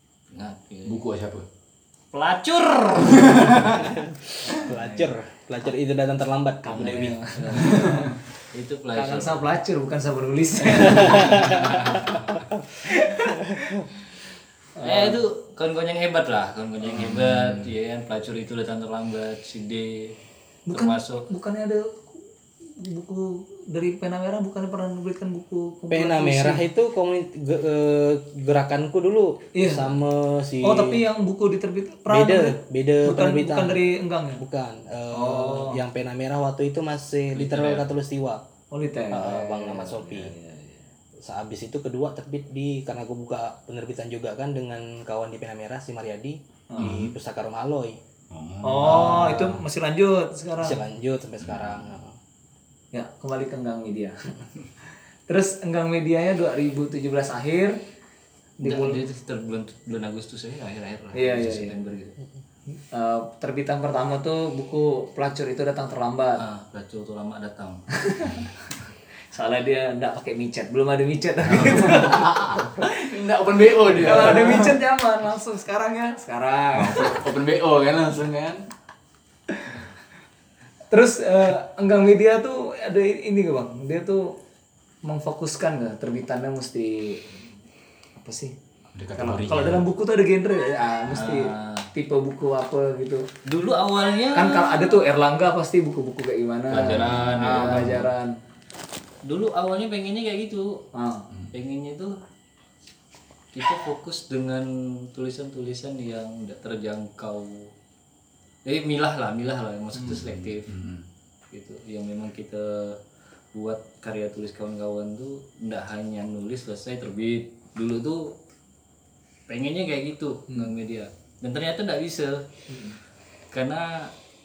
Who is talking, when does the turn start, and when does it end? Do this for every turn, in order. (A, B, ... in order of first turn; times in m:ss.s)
0:00.3-0:01.0 A
0:00.9-0:01.4 B
0:02.1-0:04.0 A
0:03.1-0:03.9 B
0:03.8-0:07.2 C
0:04.5-0:05.1 A
0:06.7-0:08.2 D
0:06.7-0:09.4 A
0:09.0-0:12.3 D
0:10.9-0:11.6 C
0:11.0-0:12.3 A
0:12.8-0:13.9 D
0:14.8-0:15.2 D
0:14.8-0:20.2 A
0:16.9-0:17.7 B
0:20.7-0:22.1 D
0:20.7-0:21.2 A
0:22.8-0:26.6 D
0:25.9-0:31.0 C
0:29.5-0:29.9 D
0:30.6-0:34.4 D
0:32.1-0:33.8 C
0:34.4-0:38.4 C
0:35.1-0:35.8 D
0:37.4-0:37.9 A
0:38.7-0:40.8 D
0:39.1-0:40.3 C
0:41.2-0:48.0 C
0:46.7-0:47.0 D
0:46.8-0:47.1 B
0:48.3-0:49.6 B
0:48.6-0:50.8 D
0:50.6-0:52.2 C
0:51.4-0:52.0 B
0:52.9-0:54.2 D
0:55.3-0:57.7 D
0:58.6-0:59.0 D
0:58.6-1:02.2 A
1:01.1-1:01.8 D
1:02.9-1:06.4 D
1:06.4-1:07.8 A
1:08.0-1:08.4 D
1:09.3-1:12.6 D
1:11.5-1:14.8 B
1:13.9-1:17.2 D
1:16.8-1:18.6 B
1:19.5-1:19.8 D
1:20.9-1:24.3 D
1:25.0-1:27.2 D
1:28.2-1:28.5 D
1:28.9-1:29.9 B
1:29.2-1:33.3 D
1:31.1-1:31.9 A
1:33.4-1:35.0 A
1:34.3-1:38.4 D
1:36.7-1:38.1 A
1:36.8-1:38.1 B
1:39.2-1:40.8 A
1:40.9-1:41.3 D
1:41.5-1:42.1 A
1:43.5-1:47.7 A
1:48.6-1:50.7 A
1:50.0-1:51.0 B
1:51.5-1:53.0 A
1:53.5-1:58.3 A
1:59.5-2:02.4 A
2:02.7-2:03.0 D
2:03.5-2:04.1 A